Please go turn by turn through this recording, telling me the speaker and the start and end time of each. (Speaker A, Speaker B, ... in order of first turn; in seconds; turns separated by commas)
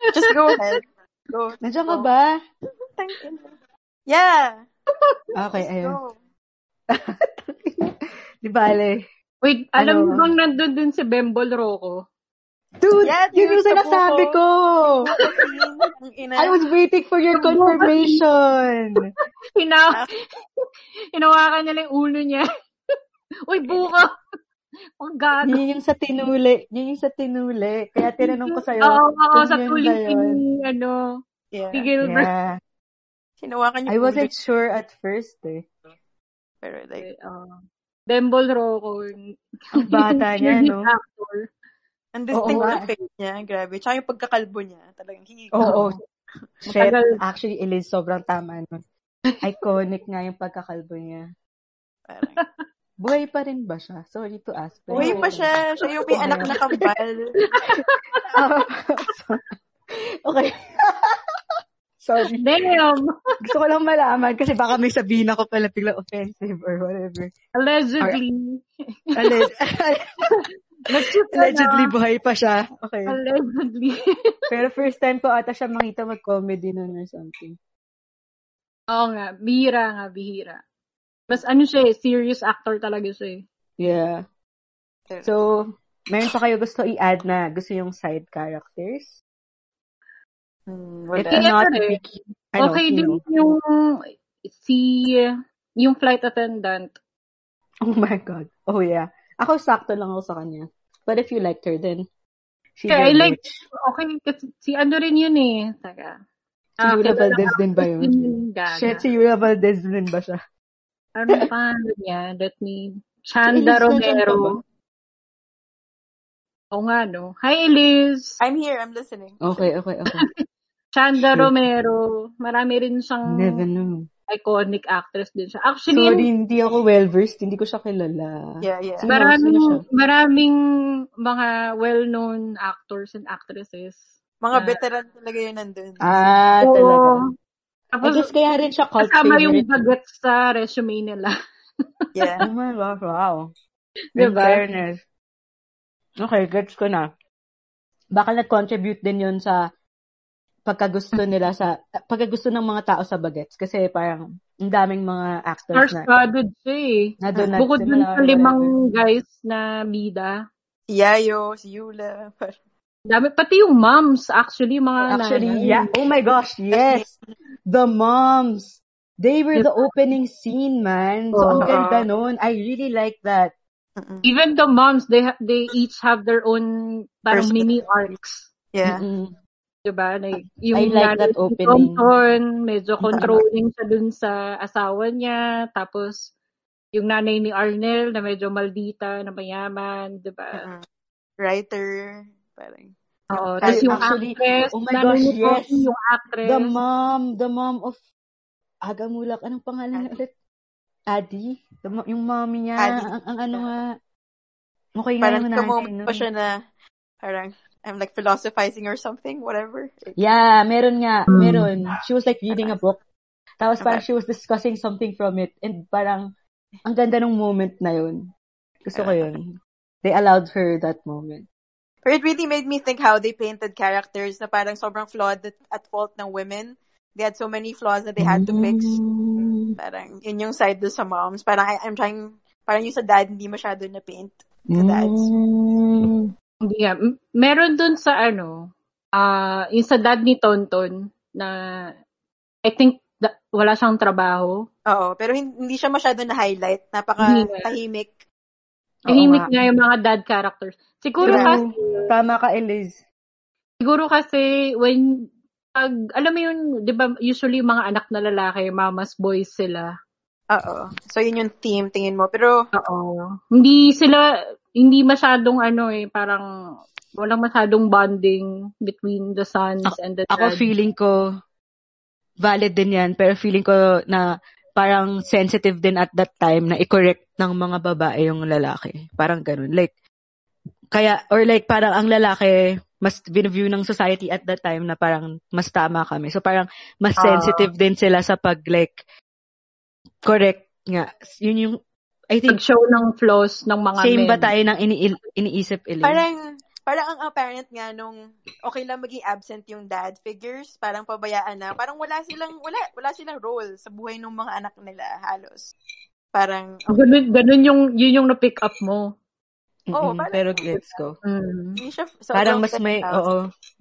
Speaker A: 0.1-2.1, Speaker B: 0.2-0.6, Speaker C: 1.6-2.3, Speaker A: 3.0-3.5, Speaker A: 4.1-4.7, Speaker C: 5.3-6.0, Speaker A: 5.6-6.2, Speaker C: 6.9-9.0, Speaker B: 9.4-12.1, Speaker C: 9.8-10.3, Speaker C: 12.8-15.1, Speaker A: 13.0-14.4, Speaker A: 15.1-16.6, Speaker C: 16.4-19.1, Speaker B: 17.3-18.2, Speaker B: 19.6-20.0, Speaker B: 21.1-22.4, Speaker B: 23.5-24.1, Speaker A: 23.7-23.9, Speaker B: 25.0-25.6, Speaker C: 25.4-30.4, Speaker B: 28.2-31.2, Speaker A: 31.5-31.9, Speaker B: 31.7-32.3, Speaker C: 32.0-32.6, Speaker A: 33.4-34.3, Speaker C: 33.9-35.7, Speaker A: 36.6-37.1, Speaker B: 37.0-39.2, Speaker B: 39.7-41.5, Speaker C: 39.8-40.9, Speaker A: 42.1-45.8, Speaker C: 42.3-42.9, Speaker C: 45.5-46.0, Speaker B: 45.6-46.0, Speaker C: 46.7-48.8, Speaker B: 46.7-47.2, Speaker C: 49.4-51.2, Speaker A: 52.1-52.4, Speaker B: 52.3-52.6, Speaker C: 53.0-55.5, Speaker B: 54.9-55.4, Speaker A: 54.9-57.3, Speaker C: 56.1-56.8, Speaker B: 57.4-58.3, Speaker C: 58.3-59.4, Speaker C: 60.2-61.3, Speaker C: 62.0-62.5, Speaker B: 62.4-63.1, Speaker C: 63.4-67.3, Speaker B: 67.6-68.6, Speaker B: 69.1-69.4, Speaker C: 69.2-70.1, Speaker B: 70.3-71.9, Speaker C: 71.0-73.2, Speaker B: 73.1-73.9, Speaker C: 74.5-77.5, Speaker B: 78.9-80.6, Speaker B: 81.3-83.4, Speaker C: 83.8-84.2, Speaker C: 85.2-89.2, Speaker A: 90.7-91.5, Speaker C: 91.1-93.2, Speaker B: 91.3-92.0, Speaker B: 92.6-93.6, Speaker B: 94.5-95.3, Speaker B: 95.8-96.9, Speaker C: 97.8-102.0, Speaker C: 102.8-103.6, Speaker B: 102.9-106.2, Speaker B: 106.8-109.0, Speaker C: 106.8-110.4, Speaker B: 111.2-114.6, Speaker C: 113.5-114.6, Speaker B: 116.7-118.4, Speaker A: 118.4-119.4, Speaker C: 119.4-120.2, Speaker B: 120.9-123.6, Speaker C: 123.3-124.1, Speaker B: 124.3-126.3, Speaker C: 125.9-129.8, Speaker A: 128.6-129.1, Speaker B: 129.1-130.6, Speaker B: 131.2-134.0, Speaker A: 134.4-136.1, Speaker B: 134.5-134.8, Speaker C: 136.0-137.2, Speaker B: 136.6-137.2, Speaker B: 137.9-138.3, Speaker C: 138.0-139.7, Speaker B: 139.0-141.3, Speaker A: 142.2-142.4, Speaker C: 142.4-143.5, Speaker B: 144.2-144.6, Speaker C: 144.2-145.0, Speaker C: 146.2-147.1, Speaker C: 148.1-149.6, Speaker C: 150.7-156.1, Speaker B: 155.7-160.3, Speaker C: 157.2-158.7, Speaker A: 160.9-162.6, Speaker B: 163.1-165.9, Speaker C: 165.1-167.1, Speaker A: 166.7-167.2, Speaker C: 167.7-173.5, Speaker B: 169.6-169.8, Speaker B: 171.3-171.7, Speaker A: 171.5-172.1, Speaker A: 174.0-174.3, Speaker B: 174.2-178.5, Speaker A: 177.3-178.1, Speaker A: 178.7-179.0, Speaker C: 178.8-179.3, Speaker B: 179.9-186.3, Speaker C: 180.7-182.1, Speaker A: 183.1-183.4, Speaker C: 183.1-183.4, Speaker B: 186.9-190.7, Speaker A: 190.5-190.8, Speaker A: 191.4-192.9, Speaker B: 193.3-196.7, Speaker A: 193.6-194.1, Speaker C: 193.7-195.9, Speaker C: 196.4-198.0, Speaker C: 198.8-200.3, Speaker A: 199.9-200.2, Speaker C: 201.1-203.9, Speaker A: 202.8-203.7, Speaker C: 204.9-206.2, Speaker A: 205.2-206.6, Speaker A: 207.2-210.2, Speaker C: 210.2-213.0, Speaker B: 211.3-211.7, Speaker A: 212.5-212.8, Speaker C: 213.6-216.3, Speaker C: 216.8-218.3, Speaker C: 218.9-221.4, Speaker A: 218.9-219.3, Speaker A: 222.1-229.0, Speaker C: 228.2-229.7, Speaker A: 229.8-235.3, Speaker C: 234.7-236.3, Speaker B: 236.6-241.5, Speaker B: 242.7-244.5, Speaker A: 244.9-248.1, Speaker B: 247.2-247.7, Speaker C: 249.1-249.7, Speaker B: 249.1-252.1, Speaker C: 251.2-253.0, Speaker A: 251.2-251.6, Speaker B: 253.8-255.0, Speaker B: 255.8-259.9, Speaker A: 260.5-262.6, Speaker B: 262.8-264.2, Speaker B: 264.8-266.4, Speaker B: 267.2-270.7, Speaker C: 269.8-271.1, Speaker C: 272.4-279.9, Speaker C: 280.9-289.0, Speaker B: 287.2-287.7, Speaker C: 290.2-291.8, Speaker C: 292.3-292.6, Speaker B: 292.5-294.5, Speaker C: 294.0-296.2, Speaker A: 296.0-305.7, Speaker A: 306.3-307.0, Speaker B: 306.9-309.1, Speaker C: 309.9-311.2, Speaker A: 309.9-310.8, Speaker B: 311.2-311.8, Speaker A: 311.8-313.2, Speaker C: 312.3-313.4